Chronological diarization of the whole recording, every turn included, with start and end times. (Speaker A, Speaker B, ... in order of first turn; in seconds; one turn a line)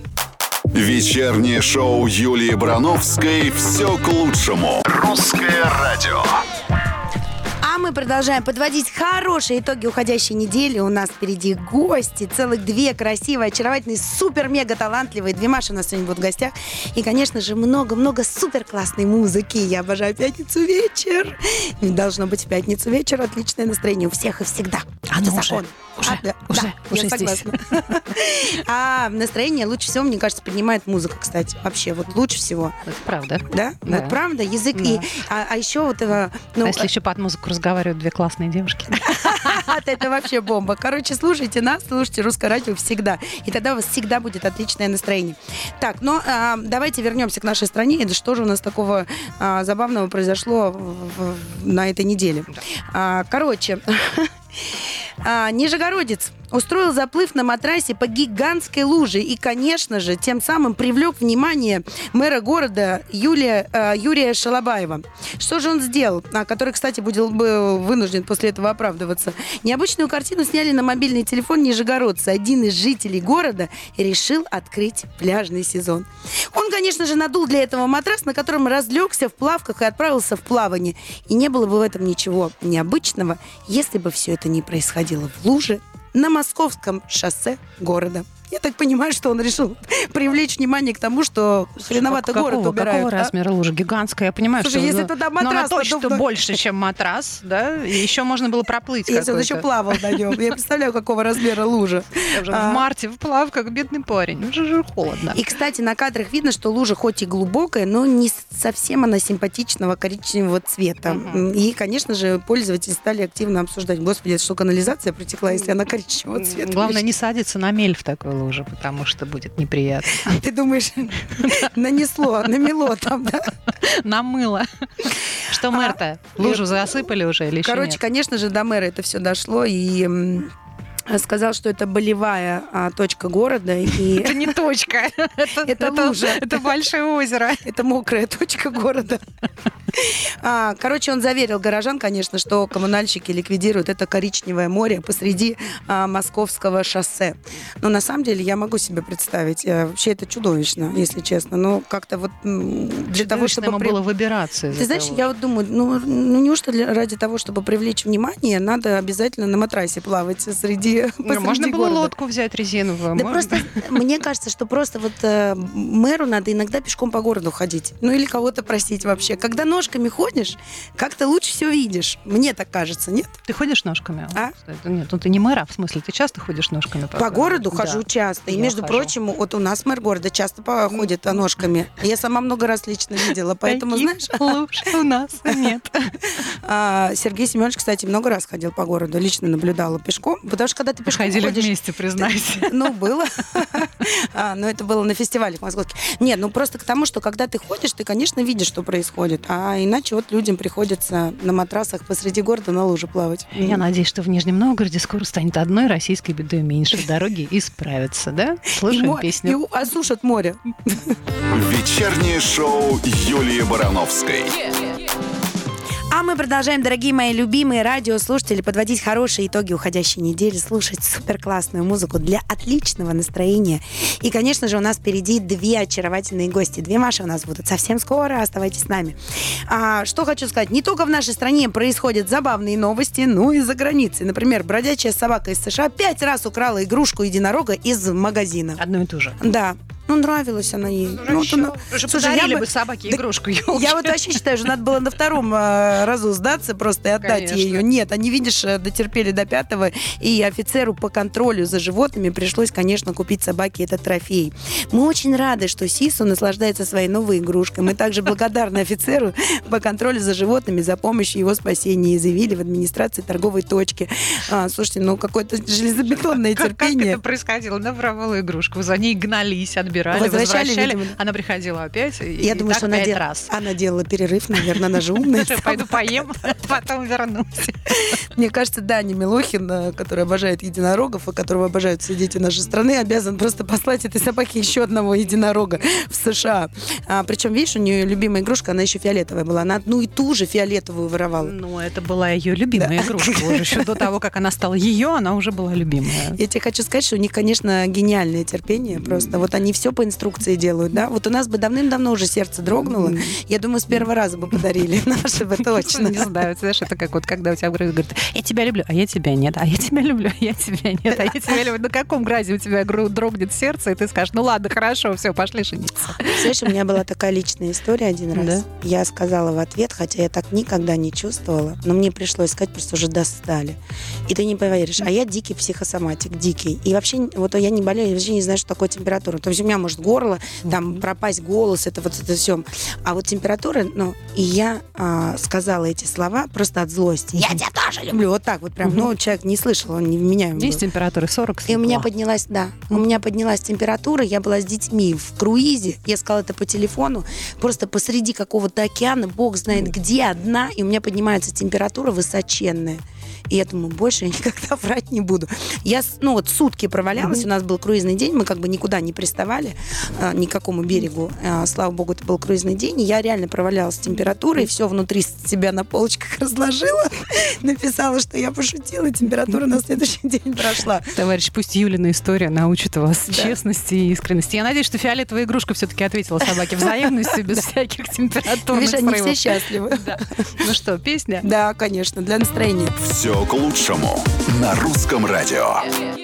Speaker A: 0.7-6.4
Speaker B: 7.6-32.8
Speaker C: 25.1-28.0
Speaker C: 32.9-34.2
Speaker B: 33.5-36.9
Speaker C: 34.7-35.1
Speaker C: 36.6-39.7
Speaker B: 39.0-93.3
Speaker C: 91.9-100.4
Speaker B: 94.6-96.3
Speaker B: 99.1-102.8
Speaker C: 102.3-105.5
Speaker B: 105.3-117.1
Speaker C: 111.1-111.5
Speaker C: 116.3-120.4
Speaker B: 120.2-123.5
Speaker C: 121.4-121.7
Speaker C: 123.8-128.0
Speaker B: 125.7-126.8
Speaker B: 127.6-130.5
Speaker B: 131.1-134.6
Speaker C: 133.9-137.7
Speaker B: 135.6-136.8
Speaker B: 137.6-139.2
Speaker B: 139.9-154.0
Speaker C: 153.1-155.3
Speaker B: 154.7-162.1
Speaker C: 161.2-163.9
Speaker B: 163.2-173.4
Speaker C: 173.5-179.1
Speaker B: 177.2-184.7
Speaker C: 180.9-181.4
Speaker C: 183.6-186.3
Speaker B: 186.4-203.8
Speaker C: 191.1-193.0
Speaker C: 203.5-209.6
Speaker B: 208.7-211.1
Speaker A: 211.5-214.6
Speaker B: 216.1-229.2
Speaker B: 229.7-238.8
Speaker C: 238.8-239.4
Speaker B: 239.4-267.2
Speaker C: 241.1-244.3
Speaker C: 247.2-247.9
Speaker C: 266.5-273.5
Speaker B: 270.1-271.2
Speaker B: 272.4-276.2
Speaker C: 274.6-278.2
Speaker B: 278.0-291.5
Speaker C: 291.4-296.4
Speaker B: 292.8-293.9
Speaker B: 296.4-306.3
Speaker C: 302.8-303.3
Speaker C: 305.6-316.7
Speaker B: 316.2-340.8
Speaker C: 318.3-318.6
Speaker C: 340.6-342.1
Speaker B: 341.7-371.1
Speaker C: 371.1-381.5
Speaker B: 373.3-373.6
Speaker B: 378.7-380.7
Speaker B: 381.4-382.9
Speaker A: 383.0-385.9